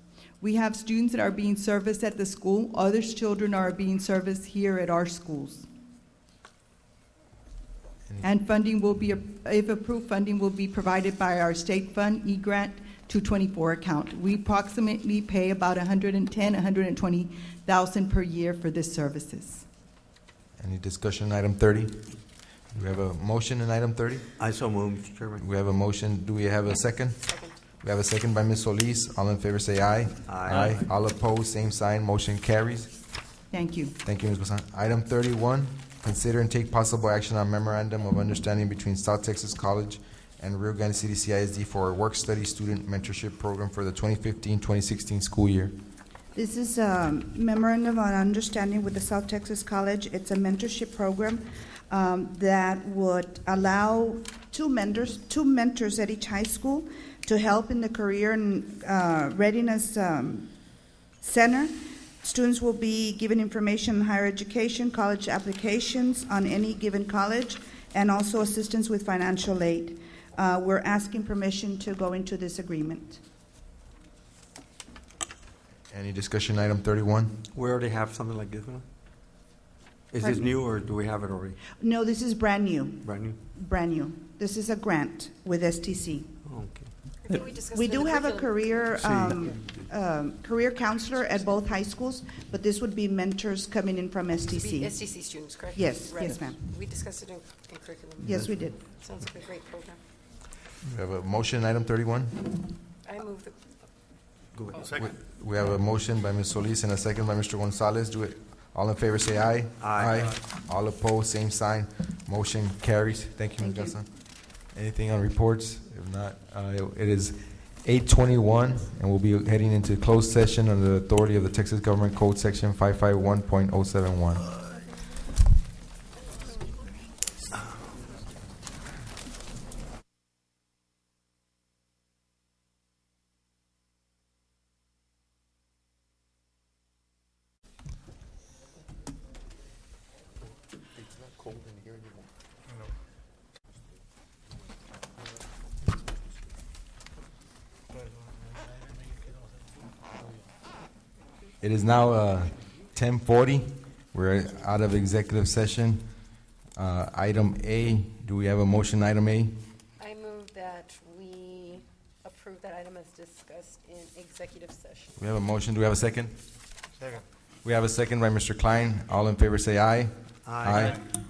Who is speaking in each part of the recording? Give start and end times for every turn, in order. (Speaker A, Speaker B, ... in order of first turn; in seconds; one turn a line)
Speaker A: 0.4-5.7
Speaker A: 8.2-19.6
Speaker B: 20.6-22.1
Speaker B: 22.7-24.3
Speaker C: 24.4-25.4
Speaker B: 25.4-32.9
Speaker D: 27.2-27.5
Speaker C: 30.2-30.8
Speaker A: 33.5-33.9
Speaker B: 34.0-45.7
Speaker E: 46.3-60.5
Speaker E: 61.2-73.2
Speaker B: 75.9-77.3
Speaker C: 77.5-78.8
Speaker C: 80.1-81.6
Speaker E: 80.2-80.5
Speaker E: 81.8-86.3
Speaker C: 83.0-83.4
Speaker C: 86.4-87.4
Speaker D: 87.2-88.9
Speaker E: 87.7-95.0
Speaker C: 89.0-89.8
Speaker D: 94.5-100.0
Speaker E: 95.7-96.6
Speaker E: 98.2-98.8
Speaker C: 98.3-98.5
Speaker B: 100.8-102.5
Speaker D: 103.0-103.6
Speaker C: 104.5-104.9
Speaker B: 105.0-114.1
Speaker C: 109.8-110.4
Speaker E: 113.6-113.9
Speaker B: 114.7-124.5
Speaker B: 151.6-156.1
Speaker B: 156.8-159.5
Speaker D: 160.0-165.2
Speaker B: 165.2-166.3
Speaker B: 167.6-171.0
Speaker C: 170.4-171.0